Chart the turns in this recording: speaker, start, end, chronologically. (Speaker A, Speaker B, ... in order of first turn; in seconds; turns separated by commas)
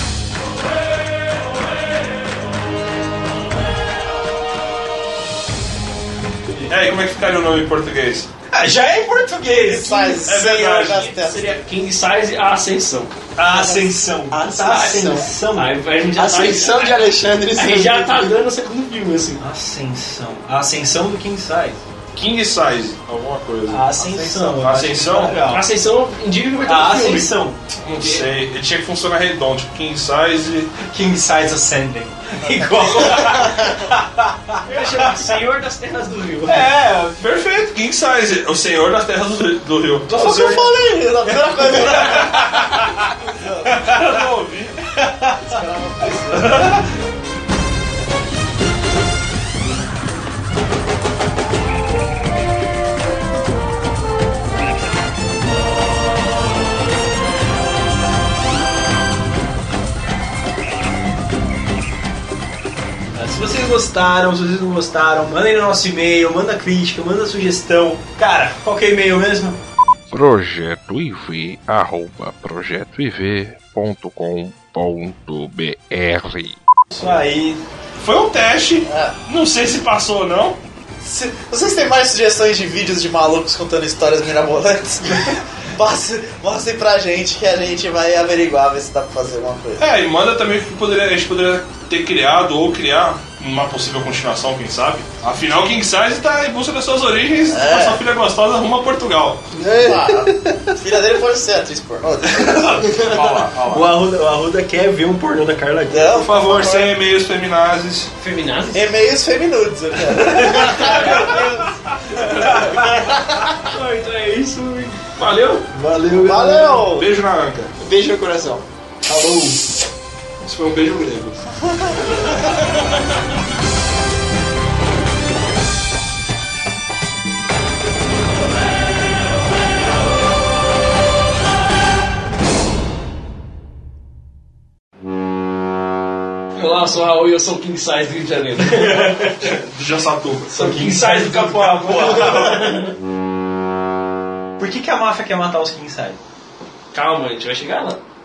Speaker A: 6.7-8.3, Speaker B: 8.5-10.7, Speaker C: 9.5-11.6, Speaker A: 10.2-11.0, Speaker D: 10.6-13.2, Speaker B: 13.3-15.8, Speaker E: 13.5-15.3, Speaker D: 14.7-15.0, Speaker D: 15.5-19.4, Speaker E: 16.1-18.3, Speaker B: 19.4-21.8, Speaker A: 22.1-25.4, Speaker B: 23.7-25.6, Speaker C: 24.0-24.3, Speaker D: 25.5-27.3, Speaker B: 26.6-27.6, Speaker A: 27.8-30.7, Speaker B: 30.8-35.2, Speaker D: 34.6-36.6, Speaker B: 36.5-37.2, Speaker A: 37.2-40.1, Speaker B: 40.1-40.7, Speaker C: 40.1-42.7, Speaker B: 42.0-42.4, Speaker C: 43.4-43.7, Speaker A: 43.7-44.7, Speaker C: 45.4-46.7, Speaker B: 63.1-69.6, Speaker F: 70.1-76.6, Speaker B: 76.9-77.6, Speaker A: 78.0-80.6, Speaker C: 78.8-79.1, Speaker C: 81.0-89.8, Speaker A: 89.8-99.4, Speaker C: 97.5-98.0, Speaker E: 99.5-100.7, Speaker C: 99.8-103.4, Speaker A: 103.0-103.9, Speaker B: 103.6-106.2, Speaker C: 105.9-106.9, Speaker A: 106.1-108.1, Speaker D: 108.2-108.9, Speaker C: 108.7-111.6, Speaker B: 110.2-113.2, Speaker C: 112.2-113.5, Speaker D: 113.6-115.7, Speaker B: 115.7-116.9, Speaker C: 116.1-117.1, Speaker A: 116.9-117.7, Speaker E: 117.8-118.6, Speaker B: 119.0-119.6, Speaker A: 120.4-121.4, Speaker D: 136.6-139.3, Speaker B: 138.6-139.4, Speaker A: 139.4-140.5, Speaker B: 140.5-142.8, Speaker D: 140.5-142.9, Speaker B: 144.6-146.2, Speaker D: 146.9-148.0